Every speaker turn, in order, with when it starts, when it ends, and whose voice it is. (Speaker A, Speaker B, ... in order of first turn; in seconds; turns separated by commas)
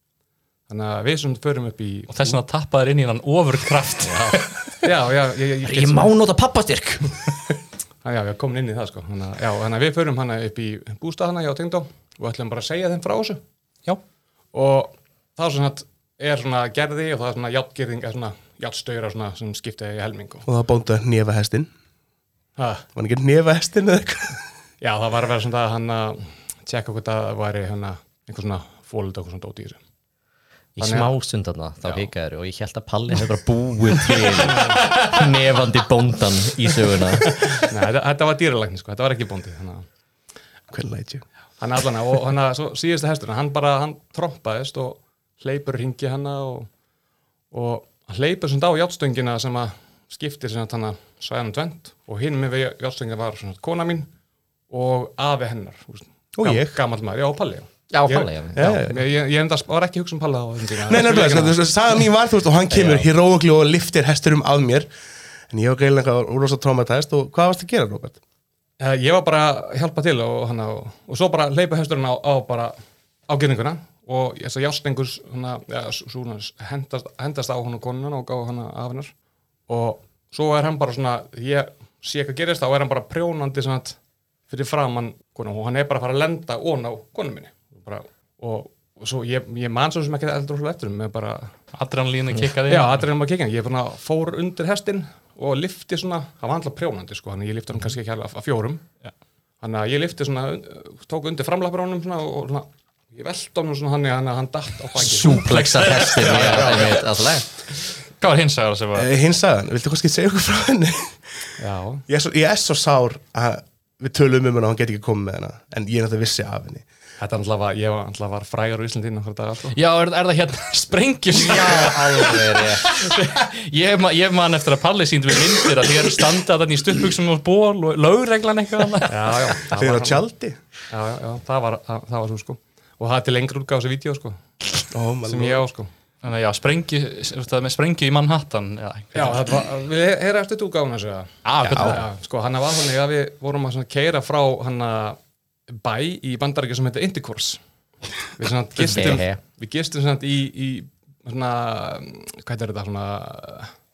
Speaker A: 0.7-2.4, Speaker B: 2.1-4.5, Speaker C: 4.0-4.9, Speaker A: 4.8-6.1, Speaker C: 5.6-7.4, Speaker A: 8.0-13.4, Speaker A: 14.5-20.5, Speaker D: 20.5-21.7, Speaker A: 22.6-22.9, Speaker D: 22.9-24.4, Speaker A: 24.8-29.8, Speaker C: 30.8-37.5, Speaker A: 30.8-31.1, Speaker A: 34.4-35.0, Speaker A: 37.6-39.9, Speaker D: 40.7-41.2, Speaker A: 41.6-46.7, Speaker A: 47.5-54.1, Speaker A: 54.7-61.6, Speaker D: 56.4-56.8, Speaker C: 57.9-58.8, Speaker D: 58.6-59.0, Speaker D: 60.9-64.9, Speaker C: 62.7-63.1, Speaker D: 65.5-68.2, Speaker A: 68.8-72.8, Speaker A: 73.3-79.1, Speaker A: 79.7-84.0, Speaker A: 84.5-91.6, Speaker B: 91.7-93.0, Speaker A: 92.6-98.8, Speaker A: 99.6-107.0, Speaker C: 105.0-107.5, Speaker B: 105.3-107.0, Speaker B: 108.2-109.1, Speaker D: 109.0-111.2, Speaker A: 111.6-112.0, Speaker D: 112.1-116.8, Speaker A: 117.2-119.8, Speaker B: 119.7-129.5, Speaker C: 121.3-122.9, Speaker A: 129.1-130.2, Speaker D: 129.7-130.6, Speaker A: 130.9-135.9, Speaker D: 134.9-135.6, Speaker B: 136.2-139.4, Speaker A: 139.2-145.2, Speaker B: 141.4-142.1, Speaker A: 145.7-147.6, Speaker A: 148.3-153.7, Speaker C: 148.8-149.4, Speaker B: 148.8-149.2